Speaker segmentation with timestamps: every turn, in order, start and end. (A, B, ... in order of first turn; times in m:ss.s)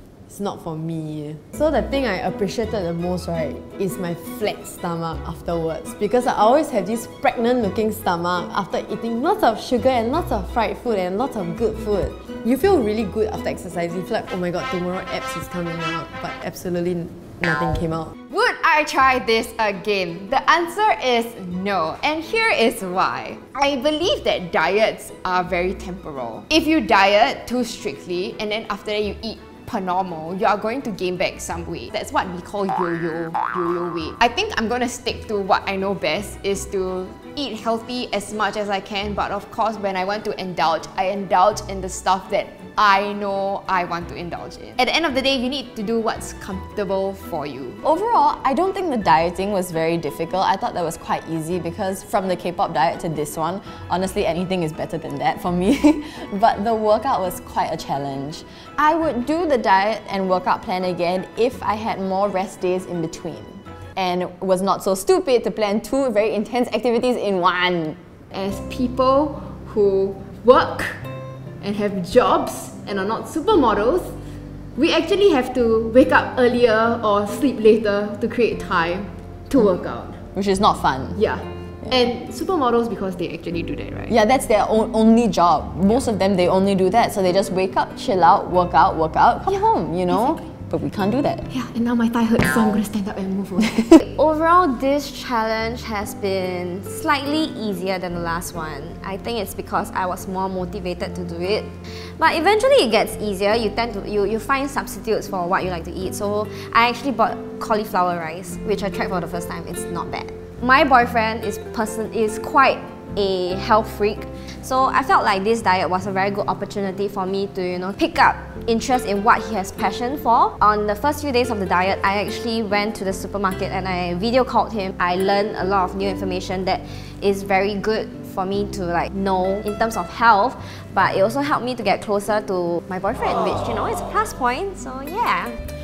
0:00.3-0:18.1 A
0:18.3-0:47.8 B
0:47.8-1:08.0 C
1:08.3-1:11.0 B
1:11.6-1:14.1 B
1:14.8-1:20.2 B
1:20.3-1:21.2 C
1:21.2-1:24.1 B
1:24.1-1:31.4 C
1:31.5-1:34.0 B
1:34.0-2:15.6 D